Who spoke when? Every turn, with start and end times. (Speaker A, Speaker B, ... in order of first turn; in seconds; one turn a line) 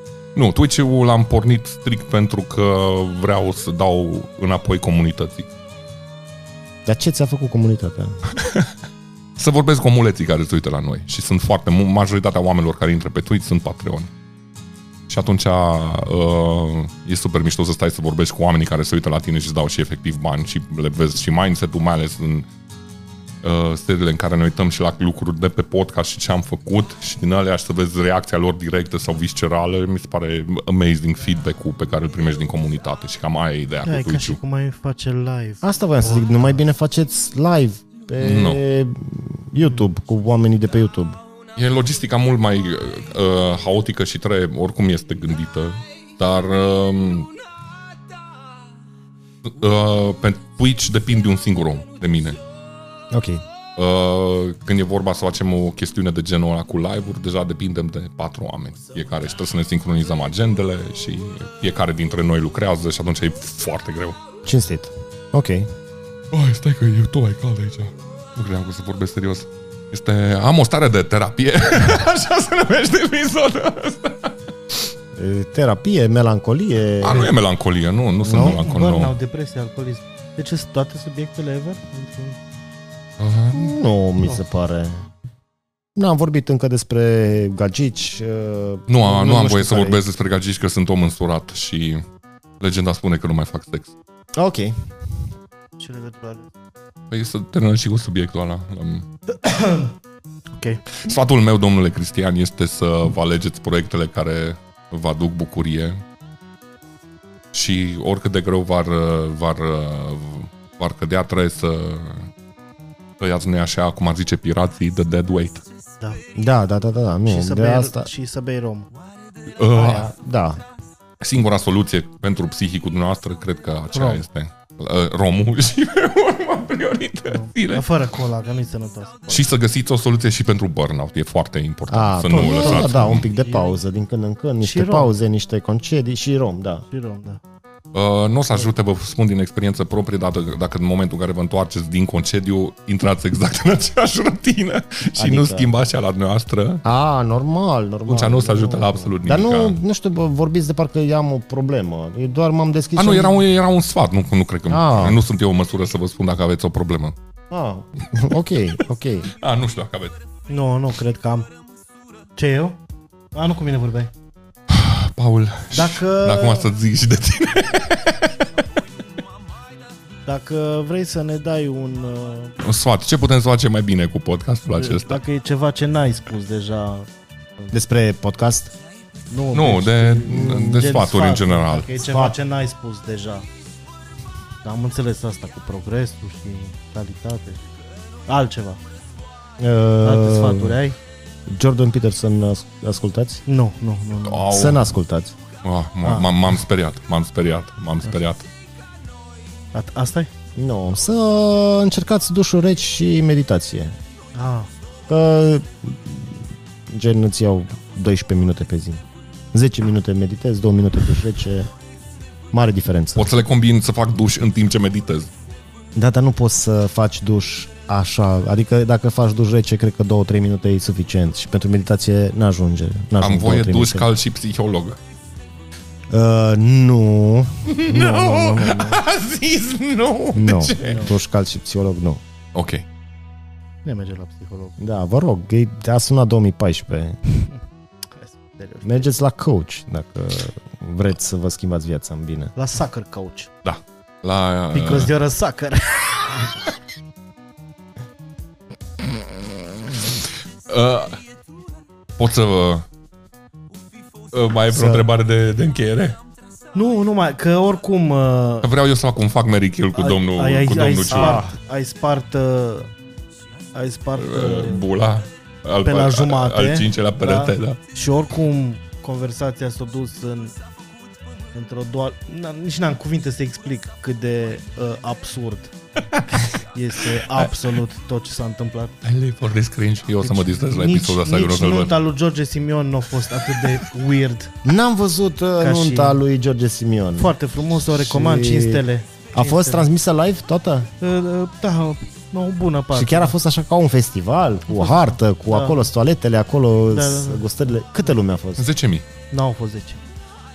Speaker A: 0.3-5.5
Speaker B: 6.8-8.2
Speaker A: 8.3-8.7
Speaker A: 9.4-14.1
Speaker A: 15.1-22.5
Speaker A: 23.4-34.4
Speaker C: 33.8-36.5
Speaker B: 35.6-41.2
Speaker A: 38.2-38.6
Speaker A: 41.5-47.3
Speaker A: 49.4-52.4
Speaker B: 53.1-53.4
Speaker A: 53.8-64.2
Speaker B: 64.4-65.7
Speaker A: 66.3-74.8
Speaker B: 75.1-77.3
Speaker A: 77.0-79.1
Speaker B: 78.2-78.6
Speaker C: 78.3-82.4
Speaker A: 83.2-83.7
Speaker B: 83.5-85.0
Speaker B: 85.9-90.0
Speaker A: 88.9-92.0
Speaker A: 92.6-93.9
Speaker B: 94.3-94.9
Speaker C: 95.8-96.5
Speaker A: 97.1-99.1
Speaker C: 99.3-99.9
Speaker C: 100.6-100.8
Speaker A: 100.9-106.0
Speaker A: 107.5-112.3
Speaker A: 113.2-115.6
Speaker B: 116.3-118.1
Speaker C: 117.3-118.9
Speaker A: 119.5-120.1
Speaker B: 119.7-120.6
Speaker A: 121.2-127.9
Speaker C: 123.9-124.2
Speaker C: 127.3-129.4
Speaker A: 129.3-133.3
Speaker B: 131.9-136.8
Speaker C: 132.3-133.8
Speaker C: 134.6-135.1
Speaker C: 136.9-137.4
Speaker A: 137.9-146.8
Speaker B: 145.2-145.7
Speaker B: 146.8-153.4
Speaker A: 148.1-149.8
Speaker A: 153.0-157.2
Speaker B: 154.7-155.2
Speaker B: 157.5-159.3
Speaker A: 159.3-160.2
Speaker C: 160.5-161.5
Speaker C: 162.3-162.8
Speaker C: 163.3-164.1
Speaker A: 164.7-168.4
Speaker C: 165.7-166.7
Speaker C: 170.2-172.6
Speaker A: 172.6-175.2
Speaker C: 174.8-177.7
Speaker B: 177.7-178.7
Speaker C: 179.3-183.5
Speaker A: 179.5-181.9
Speaker B: 180.3-180.8
Speaker B: 182.0-182.3
Speaker C: 184.6-187.6
Speaker C: 188.3-188.8
Speaker B: 189.6-190.8
Speaker C: 190.0-191.0
Speaker B: 191.5-193.4
Speaker C: 193.4-194.5
Speaker A: 194.2-194.8
Speaker B: 194.5-195.3
Speaker A: 195.6-198.5
Speaker C: 199.7-200.3
Speaker B: 200.6-204.0
Speaker C: 204.3-204.7
Speaker B: 205.1-209.0
Speaker B: 209.5-211.7
Speaker B: 212.5-213.3
Speaker A: 213.2-215.3
Speaker B: 215.9-224.1
Speaker A: 223.2-225.0
Speaker B: 226.1-229.0
Speaker A: 227.7-231.1
Speaker B: 230.3-232.2
Speaker C: 230.8-231.1
Speaker A: 232.5-232.8
Speaker C: 233.8-234.8
Speaker B: 234.8-237.2
Speaker C: 238.2-239.1
Speaker B: 238.8-242.5
Speaker C: 242.6-243.5
Speaker A: 243.6-245.1
Speaker C: 244.7-246.5
Speaker A: 250.7-251.2
Speaker A: 252.2-252.8
Speaker A: 254.3-256.2
Speaker B: 254.7-255.1
Speaker C: 256.7-258.7
Speaker A: 258.6-261.4
Speaker C: 259.9-262.9
Speaker B: 261.1-261.5
Speaker C: 263.7-264.8
Speaker A: 264.1-267.8
Speaker C: 265.8-270.5
Speaker C: 271.5-275.7
Speaker C: 276.5-279.0
Speaker A: 277.2-277.5
Speaker A: 279.0-282.0
Speaker C: 280.2-284.5
Speaker B: 284.6-287.3
Speaker C: 285.6-286.2
Speaker C: 287.2-289.9
Speaker B: 287.8-290.9
Speaker C: 291.0-293.3
Speaker B: 292.9-298.7
Speaker C: 295.5-295.8
Speaker C: 296.9-297.7
Speaker A: 298.6-299.1
Speaker C: 299.3-300.0